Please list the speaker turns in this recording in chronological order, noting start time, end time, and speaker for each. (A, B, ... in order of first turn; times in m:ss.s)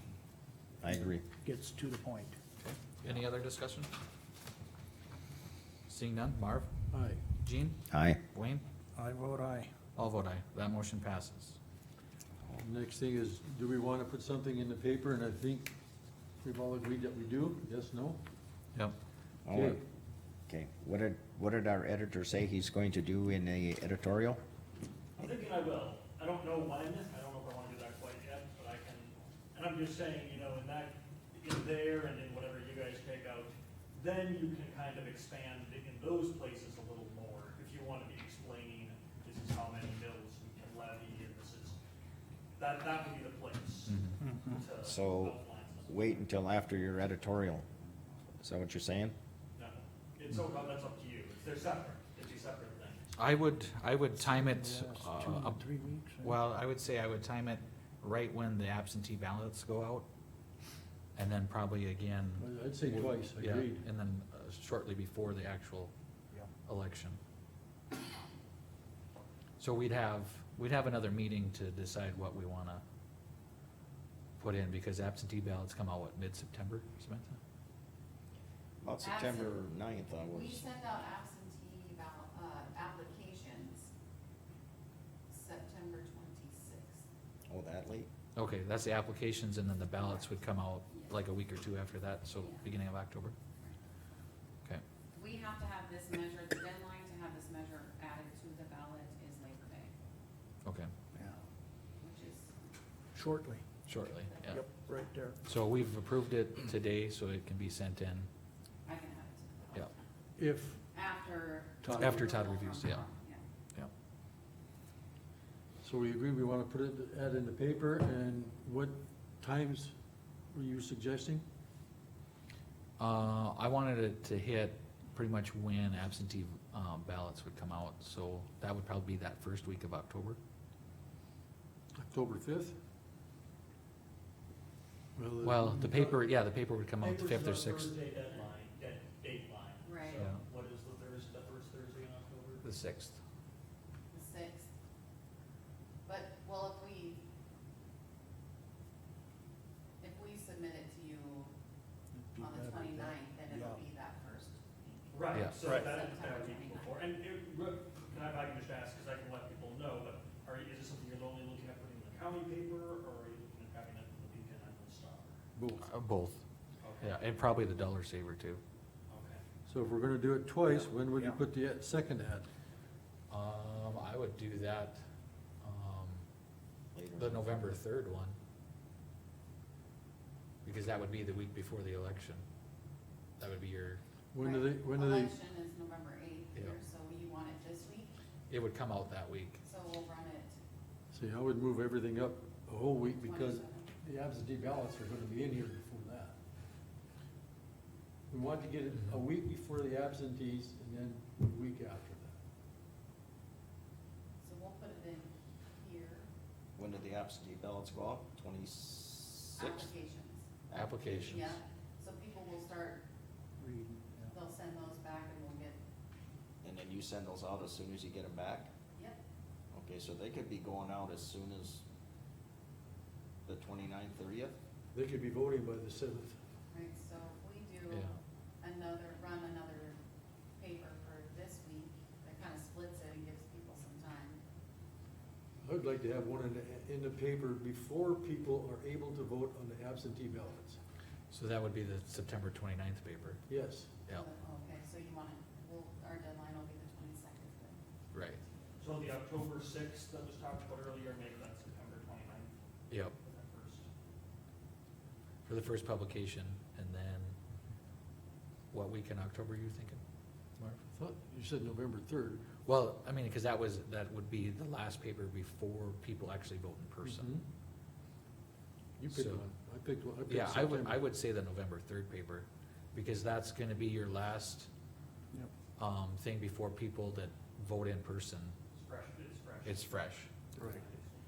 0:00.8-0:01.2 A
0:01.0-0:02.4 B
0:02.6-0:03.9 C
0:05.9-0:06.7 C
0:06.9-0:07.2 D
0:07.4-0:08.6 C
0:07.9-0:08.2 A
0:09.0-0:09.7 B
0:10.0-0:11.6 C
0:12.6-0:15.7 D
0:16.4-0:18.2 D
0:19.4-0:19.8 A
0:19.5-0:19.8 D
0:20.5-0:24.4 A
0:25.2-0:41.8 E
0:42.5-0:46.3 E
0:43.9-0:44.2 C
0:44.8-0:47.6 A
0:48.4-0:49.2 A
0:49.6-0:53.2 E
0:53.2-1:00.1 C
0:54.3-0:56.3 B
1:01.2-1:05.9 C
1:02.4-1:03.8 D
1:06.6-1:07.2 C
1:09.6-1:12.8 C
1:14.4-1:17.4 C
1:18.8-1:20.6 A
1:19.0-1:19.6 F
1:20.2-1:23.9 F
1:25.3-1:27.0 F
1:27.5-1:28.1 A
1:28.4-1:33.3 C
1:30.0-1:30.3 F
1:30.9-1:31.2 F
1:32.4-1:32.7 F
1:35.1-1:39.9 F
1:40.6-1:40.9 C
1:42.0-1:42.5 F
1:43.1-1:43.6 B
1:43.8-1:44.6 C
1:44.3-1:44.6 F
1:44.5-1:45.4 B
1:45.4-1:48.3 C
1:48.8-1:49.9 F
1:50.4-1:50.8 D
1:50.9-1:53.4 F
1:51.8-1:52.3 D
1:52.0-1:53.0 C
1:55.8-1:59.9 D
2:00.5-2:01.4 D
2:03.0-2:10.4 C
2:11.9-2:12.8 D
2:15.1-2:16.1 D
2:15.4-2:17.9 C
2:17.0-2:22.6 E
2:19.8-2:20.2 F
2:20.1-2:20.4 C
2:22.6-2:23.2 C
2:24.1-2:24.7 F
2:26.0-2:27.2 F
2:30.0-2:31.5 F
2:32.1-2:32.9 B
2:32.4-2:36.9 F
2:33.5-2:33.8 B
2:35.1-2:45.4 E
2:35.3-2:35.6 C
2:45.6-2:45.8 D
2:45.8-2:46.4 C
2:46.8-2:47.2 E
2:47.0-2:48.6 C
2:49.1-2:49.4 E
2:49.7-2:52.5 D
2:53.3-2:55.0 C
2:55.6-2:56.2 C
2:56.9-2:57.6 A
2:57.1-2:58.4 C
3:00.6-3:02.4 C
3:03.4-3:04.0 C
3:04.3-3:05.4 D
3:04.4-3:08.2 F
3:08.5-3:09.6 C
3:09.6-3:10.6 F
3:11.1-3:16.3 D
3:13.2-3:13.9 F
3:18.3-3:22.4 D
3:24.4-3:26.3 F
3:26.8-3:29.9 A
3:29.6-3:30.5 F
3:30.7-3:31.6 C
3:31.1-3:33.0 F
3:33.6-3:34.3 B
3:34.3-3:35.8 F
3:36.6-3:38.7 A
3:39.7-3:41.8 A
3:43.4-3:44.6 A
3:44.9-3:46.4 D
3:46.7-3:50.0 F
3:47.9-3:48.2 C
3:50.6-3:54.4 F
3:55.6-4:00.8 D
4:01.3-4:03.4 C
4:03.5-4:03.9 D
4:04.1-4:07.8 F
4:08.1-4:08.4 C
4:08.8-4:12.6 E
4:12.9-4:13.1 C
4:13.2-4:13.8 E
4:15.4-4:17.4 C
4:18.7-4:20.0 C
4:20.6-4:20.8 C
4:20.9-4:22.5 D
4:22.6-4:27.3 C
4:27.0-4:27.4 D
4:29.0-4:30.9 D
4:29.1-4:29.4 C
4:30.3-4:34.7 C
4:35.8-4:38.6 C
4:38.7-4:39.9 E
4:39.6-4:40.3 C
4:40.6-4:41.1 E